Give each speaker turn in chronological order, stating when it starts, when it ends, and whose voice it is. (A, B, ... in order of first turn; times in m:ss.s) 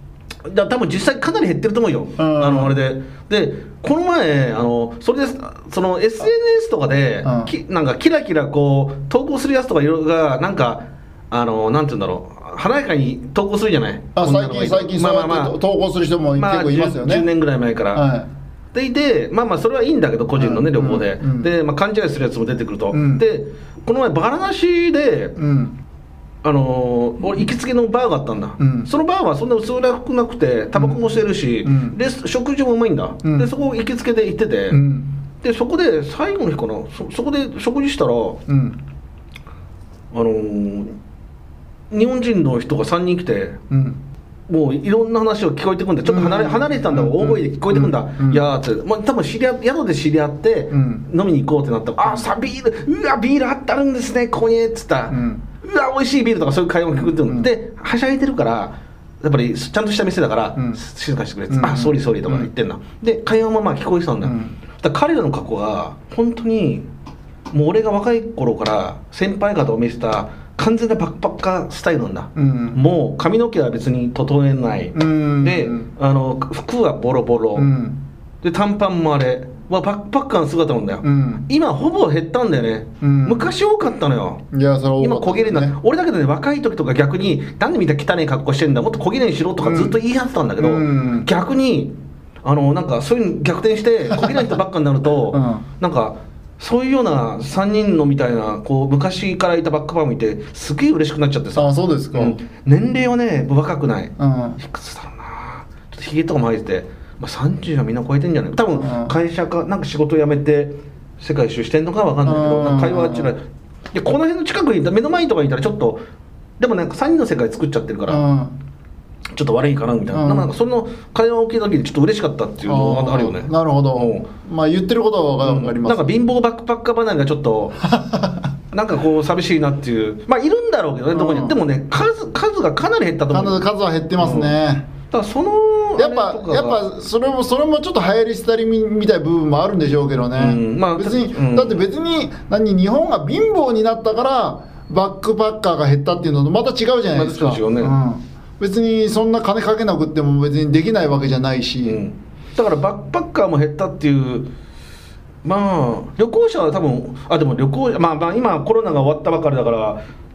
0:00.5-0:15.6 A
0:02.2-0:02.8 B
0:07.2-0:07.5 B
0:14.2-0:17.3 B
0:16.4-0:18.0 A
0:17.9-0:18.3 B
0:18.7-0:25.4 A
0:20.4-0:21.5 B
0:22.9-0:23.2 B
0:25.4-0:25.8 B
0:26.4-0:34.8 A
0:28.6-0:28.9 B
0:30.7-0:31.1 B
0:31.6-0:32.0 B
0:33.2-0:33.5 B
0:34.7-0:35.1 B
0:35.4-0:38.4 A
0:38.5-0:38.8 B
0:40.1-0:41.0 A
0:41.9-0:43.6 A
0:43.7-0:44.0 B
0:44.5-1:06.9 A
0:46.0-0:48.4 B
0:50.7-0:51.1 B
0:55.1-0:55.4 B
0:57.0-0:57.5 B
1:00.6-1:00.8 B
1:01.5-1:02.5 B
1:04.2-1:04.6 B
1:07.5-1:17.7 A
1:12.4-1:12.8 B
1:14.9-1:15.9 B
1:17.5-1:18.0 B
1:18.4-1:24.4 A
1:21.0-1:21.4 B
1:23.0-1:23.5 B
1:24.5-1:25.8 B
1:25.0-1:56.0 A
1:29.6-1:30.0 B
1:30.6-1:31.3 B
1:34.2-1:34.5 B
1:35.3-1:35.6 B
1:41.5-1:42.4 B
1:44.2-1:44.6 B
1:48.7-1:49.1 B
1:52.2-1:53.3 B
1:56.6-1:58.2 A
1:58.1-1:58.6 B
1:59.3-2:04.3 A
2:00.1-2:00.5 B
2:02.6-2:06.1 B
2:05.4-2:07.8 A
2:07.8-2:08.5 B
2:08.7-2:13.6 A
2:11.1-2:11.6 B
2:13.3-2:14.9 B
2:14.2-2:14.5 A
2:15.1-2:16.8 A
2:16.0-2:32.0 B
2:20.4-2:21.8 A
2:27.1-2:27.9 A
2:31.8-2:34.5 A
2:35.4-2:40.0 A